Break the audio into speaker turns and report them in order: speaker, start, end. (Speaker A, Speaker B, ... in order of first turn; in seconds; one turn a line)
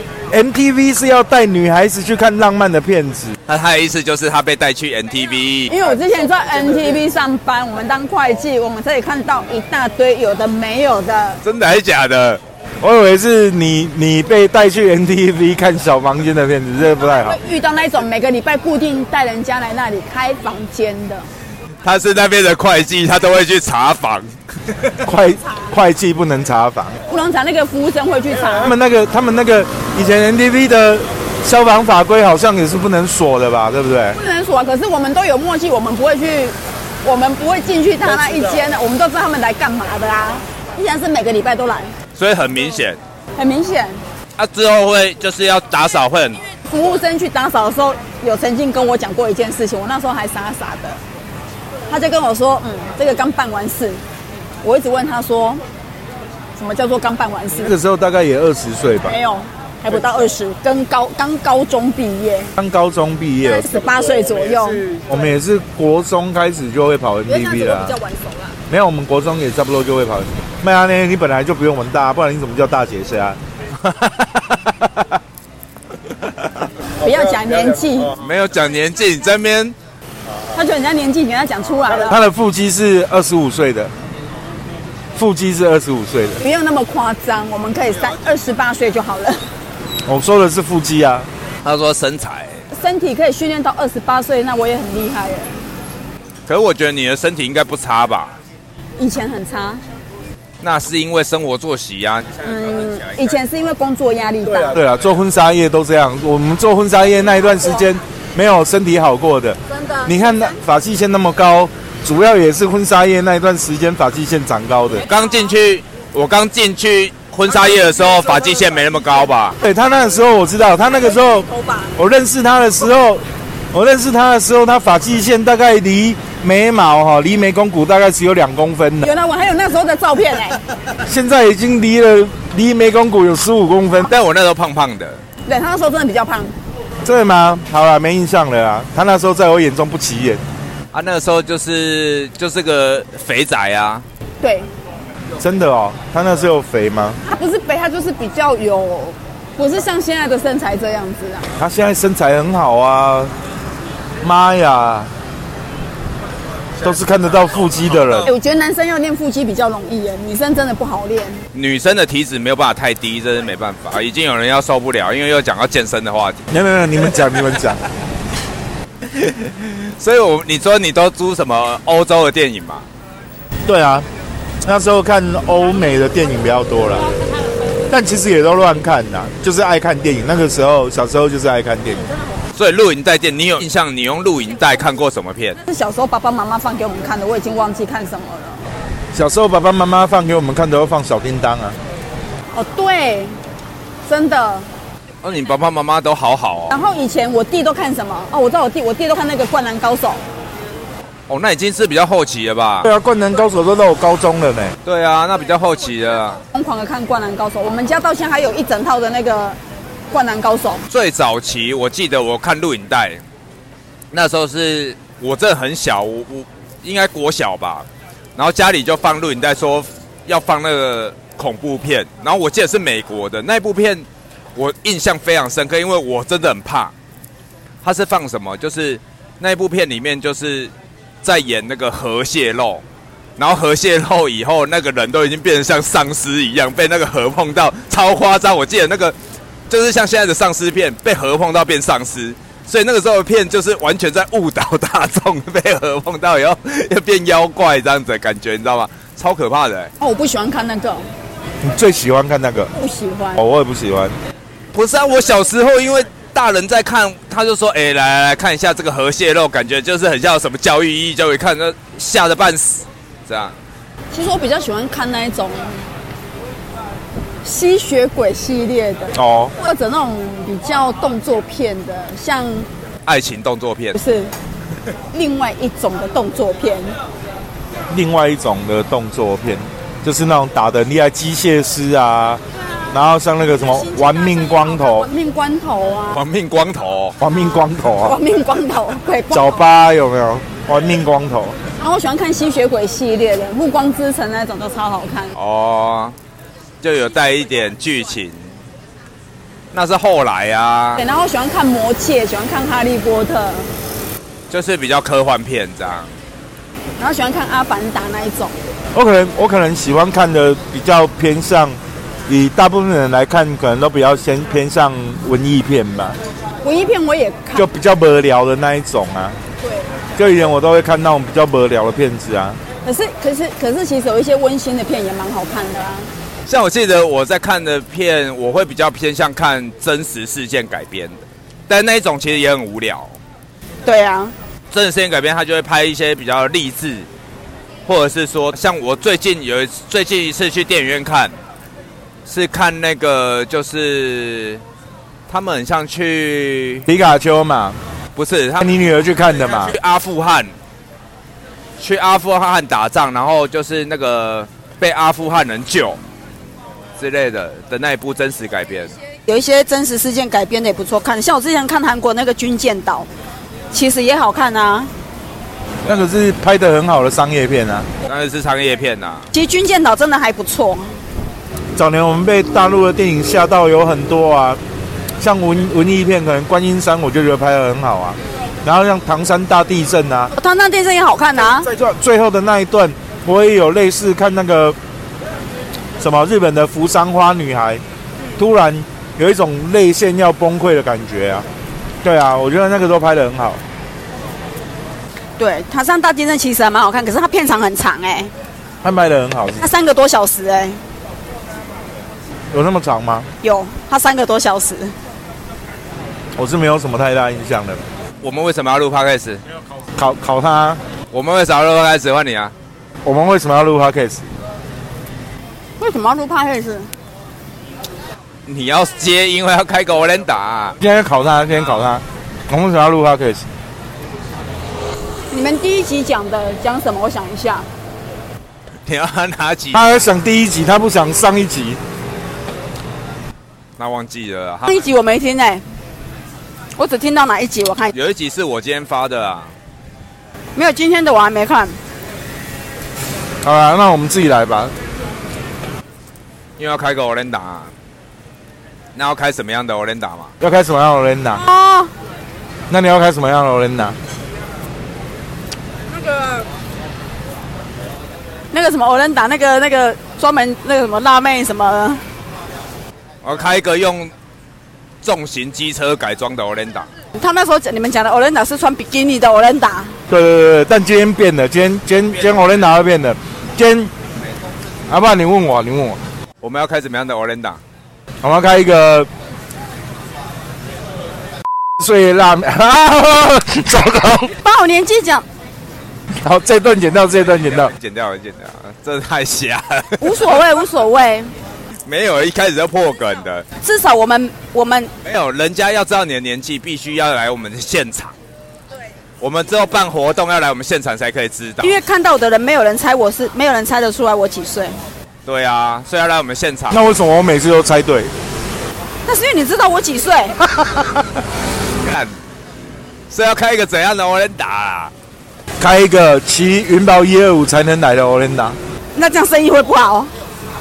Speaker A: 0.3-3.4
Speaker B: 3.5-5.7
Speaker C: 5.7-11.4
Speaker B: 11.4-12.4
Speaker A: 12.8-17.4
Speaker C: 17.1-21.3
Speaker B: 21.8-24.3
Speaker A: 25.0-27.0
Speaker C: 27.1-28.7
Speaker A: 28.6-34.2
Speaker C: 34.1-41.9
Speaker B: 42.2-43.0
Speaker C: 43.4-44.0
Speaker B: 44.4-46.4
Speaker C: 46.7-51.0
Speaker C: 51.9-54.0
Speaker C: 54.6-55.6
Speaker C: 56.5-57.7
Speaker A: 57.6-59.1
Speaker C: 59.0-62.5
Speaker A: 62.6-63.7
Speaker C: 63.4-65.0
Speaker A: 65.1-68.0
Speaker C: 67.3-68.6
Speaker A: 68.7-73.4
Speaker B: 73.8-75.2
Speaker C: 77.0-78.2
Speaker B: 78.2-79.8
Speaker C: 80.5-82.2
Speaker A: 82.0-83.9
Speaker A: 85.2-86.4
Speaker C: 86.4-89.4
Speaker A: 90.1-91.3
Speaker B: 91.6-92.6
Speaker C: 92.7-95.5
Speaker B: 96.5-98.3
Speaker C: 99.0-99.8
Speaker B: 100.6-102.4
Speaker C: 102.4-104.8
Speaker A: 104.7-115.1
Speaker C: 109.7-110.5
Speaker B: 115.1-119.6
Speaker A: 119.6-129.1
Speaker C: 121.4-121.9
Speaker C: 129.0-130.6
Speaker A: 131.1-134.1
Speaker B: 134.1-135.2
Speaker C: 135.5-136.5
Speaker A: 137.0-140.4
Speaker B: 140.9-144.1
Speaker C: 144.4-144.7
Speaker A: 145.4-147.2
Speaker C: 147.2-151.5
Speaker A: 151.6-153.3
Speaker A: 154.2-155.1
Speaker A: 156.8-158.3
Speaker C: 158.2-161.4
Speaker B: 161.5-166.4
Speaker A: 166.5-167.8
Speaker B: 169.0-172.9
Speaker A: 173.7-174.1
Speaker A: 174.7-177.1
Speaker A: 177.9-182.1
Speaker B: 182.6-185.6
Speaker C: 185.7-188.7
Speaker A: 189.1-191.8
Speaker C: 192.5-193.4
Speaker C: 194.1-194.7
Speaker B: 195.2-196.8
Speaker C: 196.7-200.2
Speaker B: 201.3-202.9
Speaker A: 202.8-204.8
Speaker B: 204.8-206.4
Speaker C: 206.5-209.6
Speaker C: 210.1-210.8
Speaker B: 210.9-213.2
Speaker B: 214.1-217.9
Speaker B: 218.4-226.9
Speaker B: 227.8-230.7
Speaker B: 231.2-232.8
Speaker B: 233.4-239.2
Speaker B: 239.7-249.9
Speaker C: 250.0-251.1
Speaker A: 251.6-252.7
Speaker C: 252.7-253.4
Speaker A: 253.4-254.2
Speaker B: 254.7-263.6
Speaker C: 264.1-265.9
Speaker C: 267.4-272.7
Speaker A: 269.1-269.5
Speaker B: 273.1-274.0
Speaker C: 274.0-274.3
Speaker C: 275.1-276.9
Speaker A: 277.9-285.1
Speaker C: 283.8-286.2
Speaker B: 286.1-287.2
Speaker A: 287.2-288.2
Speaker C: 288.0-289.6
Speaker A: 289.3-291.6
Speaker C: 291.8-295.3
Speaker B: 295.4-296.1
Speaker B: 296.8-298.5
Speaker B: 299.7-301.0
Speaker C: 301.0-303.7
Speaker B: 304.5-306.1
Speaker C: 307.0-308.6
Speaker A: 308.9-311.8
Speaker A: 312.3-316.2
Speaker C: 316.6-317.7
Speaker A: 317.6-319.4
Speaker A: 320.2-322.6
Speaker C: 322.8-326.1
Speaker B: 326.5-333.1
Speaker C: 333.9-334.3
Speaker B: 334.7-337.1
Speaker B: 337.9-341.4
Speaker B: 342.3-344.6
Speaker B: 345.3-346.9
Speaker A: 346.9-347.8
Speaker B: 348.1-348.8
Speaker A: 348.6-349.8
Speaker B: 349.5-350.5
Speaker B: 351.8-356.0
Speaker B: 357.0-358.9
Speaker C: 359.3-363.1
Speaker C: 363.7-364.9
Speaker A: 365.9-367.9
Speaker B: 368.0-369.3
Speaker C: 369.3-371.0
Speaker A: 371.8-374.6
Speaker A: 375.2-380.3
Speaker C: 380.4-381.7
Speaker A: 381.4-384.8
Speaker A: 386.0-387.8
Speaker A: 388.4-391.5
Speaker A: 392.0-393.6
Speaker C: 395.4-398.3
Speaker A: 398.8-399.6
Speaker C: 399.6-400.8
Speaker A: 402.5-403.3
Speaker C: 403.4-404.9
Speaker A: 406.4-407.8
Speaker B: 408.2-409.4
Speaker A: 410.0-410.8
Speaker B: 411.1-412.5
Speaker A: 413.1-414.3
Speaker C: 415.8-416.9
Speaker B: 418.5-420.8
Speaker A: 420.8-423.5
Speaker C: 425.3-427.7
Speaker B: 428.9-430.0
Speaker A: 429.7-431.8
Speaker B: 433.8-434.7
Speaker C: 434.7-435.6
Speaker C: 436.8-437.9
Speaker B: 437.9-439.5
Speaker C: 440.6-441.8
Speaker A: 443.4-444.7
Speaker B: 446.6-447.7
Speaker B: 448.9-450.3
Speaker A: 450.4-451.4
Speaker C: 451.3-451.9
Speaker A: 452.7-454.0
Speaker C: 458.5-462.0
Speaker B: 463.2-464.1
Speaker B: 465.0-466.9
Speaker C: 467.2-470.0
Speaker A: 470.1-473.9
Speaker A: 474.9-476.0
Speaker B: 476.4-477.6
Speaker A: 478.2-479.1
Speaker A: 481.8-484.3
Speaker C: 484.4-485.3
Speaker A: 486.2-487.7
Speaker B: 487.6-490.3
Speaker C: 490.0-491.3
Speaker B: 491.9-493.4
Speaker C: 493.6-494.9
Speaker B: 495.1-498.1
Speaker B: 499.2-501.8
Speaker C: 501.6-504.8
Speaker B: 505.3-506.8
Speaker A: 506.7-508.1
Speaker C: 509.1-510.4
Speaker A: 510.6-510.9
Speaker B: 511.8-512.1
Speaker B: 513.1-514.9
Speaker A: 515.6-518.6
Speaker C: 519.0-520.1